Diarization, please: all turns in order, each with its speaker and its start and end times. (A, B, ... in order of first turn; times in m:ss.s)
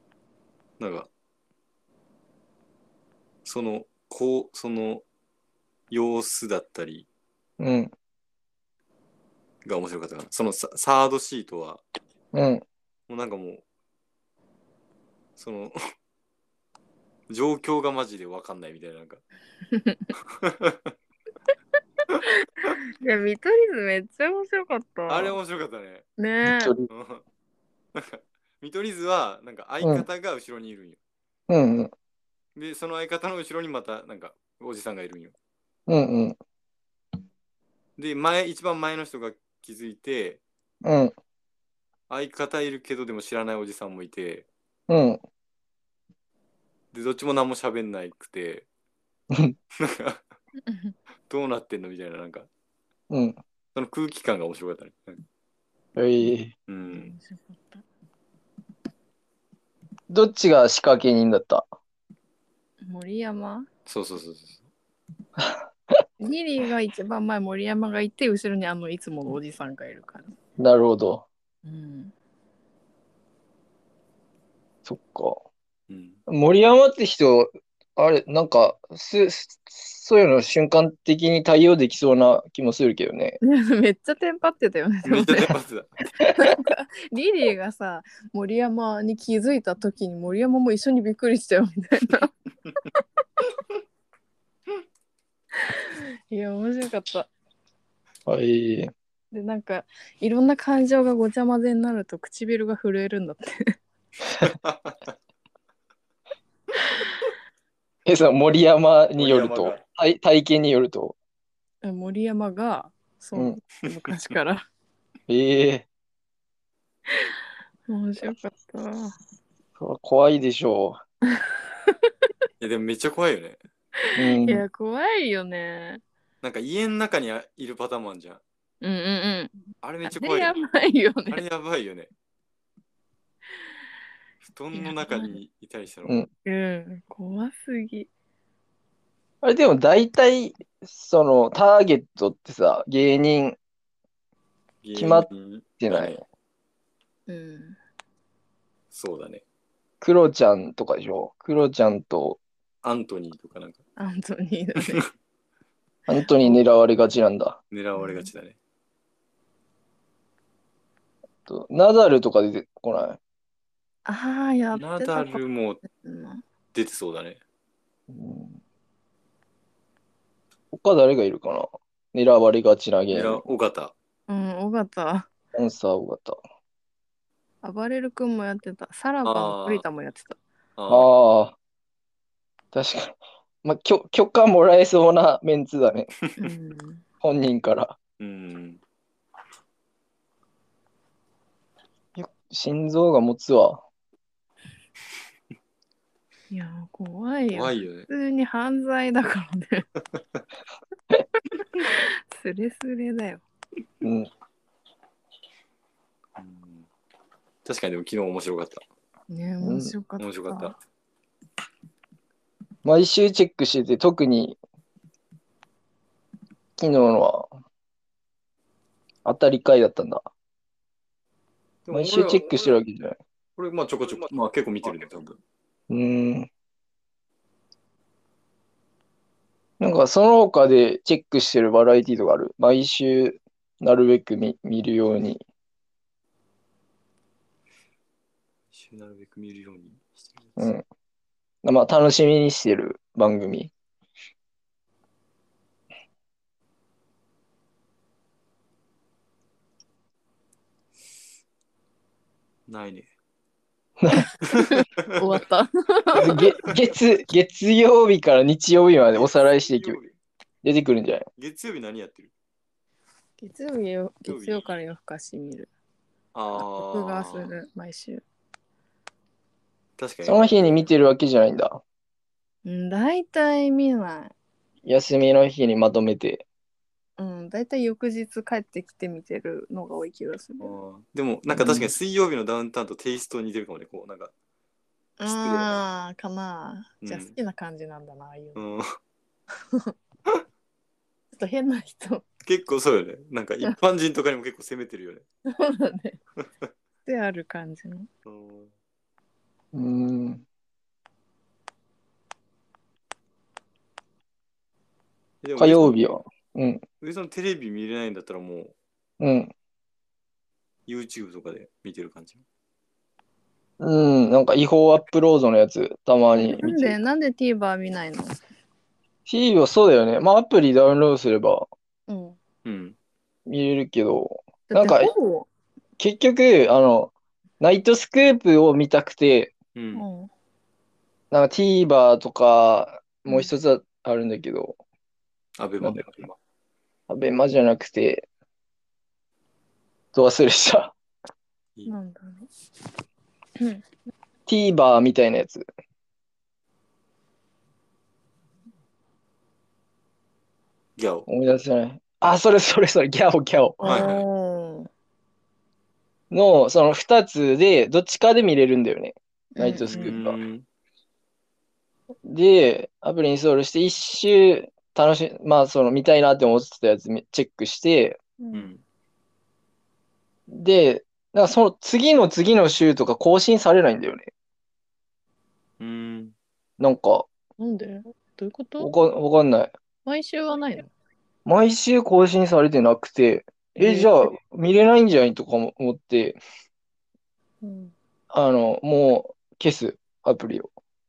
0:00.8-0:01.1 A
0:03.4-0:05.0 A
0:05.9-0:07.1 A
0:07.6-0:07.9 B
0:09.6-0:11.8 A
0:12.3-0:12.6 B
0:13.1-0:13.6 A
0:15.4-0:15.8 A
0:17.3-0:19.2 A
0:19.7-0:20.1 C
0:20.3-0:20.9 A
0:22.7-0:25.4 C
0:25.1-0:26.0 A
0:26.2-0:26.7 C
0:26.4-0:26.9 B
0:26.9-0:27.2 A
0:27.9-0:31.0 A
0:31.5-0:31.9 B
0:32.6-0:35.3 A
0:35.9-0:36.4 B
0:38.0-0:40.4 A
0:40.8-0:41.1 B
0:42.1-0:44.4 A
0:44.9-0:45.2 B
0:46.9-0:48.6 A
0:49.8-0:50.2 A
0:50.6-0:50.9 C
0:51.3-0:52.5 A
0:53.1-0:53.4 B
0:53.7-0:55.2 A
0:56.0-0:56.5 B
0:56.7-0:57.1 A
0:56.9-0:57.8 C
1:00.1-1:01.6 B
1:02.8-1:03.7 C
1:03.9-1:04.6 A
1:05.4-1:05.6 B
1:06.2-1:10.3 C
1:10.6-1:11.2 B
1:11.6-1:12.1 C
1:14.8-1:15.4 B
1:15.9-1:16.2 A
1:16.3-1:23.4 B
1:23.4-1:25.5 C
1:25.0-1:25.9 A
1:26.3-1:32.3 C
1:35.6-1:37.3 C
1:38.3-1:38.9 B
1:39.3-1:43.7 C
1:44.4-1:45.0 A
1:48.0-1:51.1 B
1:49.2-1:49.8 A
1:51.8-1:54.6 C
1:55.3-1:55.8 B
1:57.9-1:59.1 C
1:59.8-2:01.0 B
2:01.8-2:02.1 C
2:02.6-2:03.6 A
2:04.0-2:06.0 C
2:04.2-2:04.6 B
2:06.4-2:08.4 A
2:08.8-2:11.4 C
2:09.8-2:10.6 A
2:11.3-2:12.1 A
2:14.4-2:16.2 A
2:14.7-2:15.4 C
2:16.4-2:18.1 C
2:19.4-2:23.6 B
2:24.8-2:26.2 A
2:25.0-2:25.3 B
2:25.8-2:26.2 B
2:27.3-2:27.8 C
2:28.9-2:29.4 A
2:30.0-2:32.4 B
2:32.8-2:33.8 A
2:34.0-2:35.0 C
2:36.1-2:37.6 B
2:36.1-2:36.6 C
2:37.7-2:38.6 A
2:38.0-2:38.3 C
2:41.5-2:43.2 B
2:44.0-2:46.4 C
2:44.7-2:45.8 A
2:46.7-2:47.4 A
2:48.1-2:48.6 B
2:50.7-2:53.4 B
2:53.1-2:53.9 A
2:54.3-2:55.3 C
2:55.5-2:56.4 B
2:57.6-3:00.4 C
2:59.2-2:59.8 A
3:00.8-3:01.1 A
3:00.9-3:01.5 B
3:02.7-3:06.1 B
3:06.4-3:07.0 C
3:07.2-3:08.0 B
3:08.2-3:08.8 A
3:12.2-3:13.8 B
3:16.5-3:19.9 C
3:17.5-3:18.1 A
3:21.8-3:23.4 C
3:24.0-3:24.3 B
3:26.4-3:26.9 A
3:27.6-3:28.8 A
3:29.3-3:30.7 C
3:29.6-3:29.9 B
3:30.2-3:30.8 A
3:32.8-3:34.6 B
3:36.8-3:37.5 B
3:39.2-3:40.3 B
3:41.8-3:42.8 A
3:41.9-3:43.2 B
3:43.6-3:45.4 A
3:45.9-3:46.5 B
3:49.8-3:55.4 B
3:58.7-4:00.7 A
4:00.6-4:00.8 B
4:01.6-4:03.7 B
4:12.7-4:13.1 A
4:14.0-4:14.3 B
4:14.4-4:16.4 C
4:14.5-4:15.2 A
4:16.2-4:20.0 B
4:19.1-4:20.2 A
4:20.6-4:21.2 B
4:21.4-4:22.3 A
4:23.4-4:25.7 C
4:24.2-4:24.7 A
4:26.3-4:27.5 A
4:26.5-4:28.2 C
4:30.0-4:30.5 A
4:30.2-4:31.8 B
4:32.6-4:34.3 C
4:34.8-4:36.4 B
4:37.2-4:40.7 C
4:40.6-4:44.3 A
4:41.5-4:41.9 B
4:45.2-4:48.6 C
4:45.2-4:45.8 A
4:47.0-4:47.4 A
4:48.5-4:48.9 A
4:51.3-4:52.2 C
4:52.4-4:55.2 A
4:55.4-4:56.2 C
4:57.0-4:58.1 C
4:58.2-4:58.7 A
4:59.7-5:00.4 B
5:05.4-5:06.1 A
5:05.6-5:06.8 B
5:07.0-5:08.7 A
5:09.2-5:09.5 B
5:10.9-5:12.4 A
5:13.8-5:17.0 B
5:16.4-5:18.4 C
5:19.2-5:21.6 B
5:22.1-5:22.4 C
5:22.6-5:23.0 A
5:23.5-5:25.1 B
5:24.7-5:25.5 C
5:26.0-5:29.5 B
5:29.7-5:30.0 A
5:29.9-5:30.3 C
5:31.3-5:34.7 B
5:33.3-5:33.5 C
5:35.6-5:36.4 A
5:35.8-5:36.0 B
5:37.1-5:38.2 B
5:40.1-5:40.9 B
5:41.9-5:42.5 C
5:44.5-5:45.6 B
5:51.0-5:51.3 A
5:51.3-5:53.8 B
5:53.8-5:54.9 C
5:53.8-5:54.2 A
5:56.3-6:00.4 B
5:59.5-6:00.1 C
5:59.8-6:00.6 A
6:02.2-6:08.2 B
6:08.4-6:08.7 C
6:08.5-6:08.8 A
6:10.5-6:14.3 B
6:15.8-6:16.3 A
6:16.8-6:17.3 B
6:17.6-6:18.9 C
6:18.8-6:19.7 B
6:20.0-6:20.9 C
6:21.4-6:26.4 B
6:23.8-6:24.3 C
6:27.6-6:27.9 C
6:28.3-6:30.7 B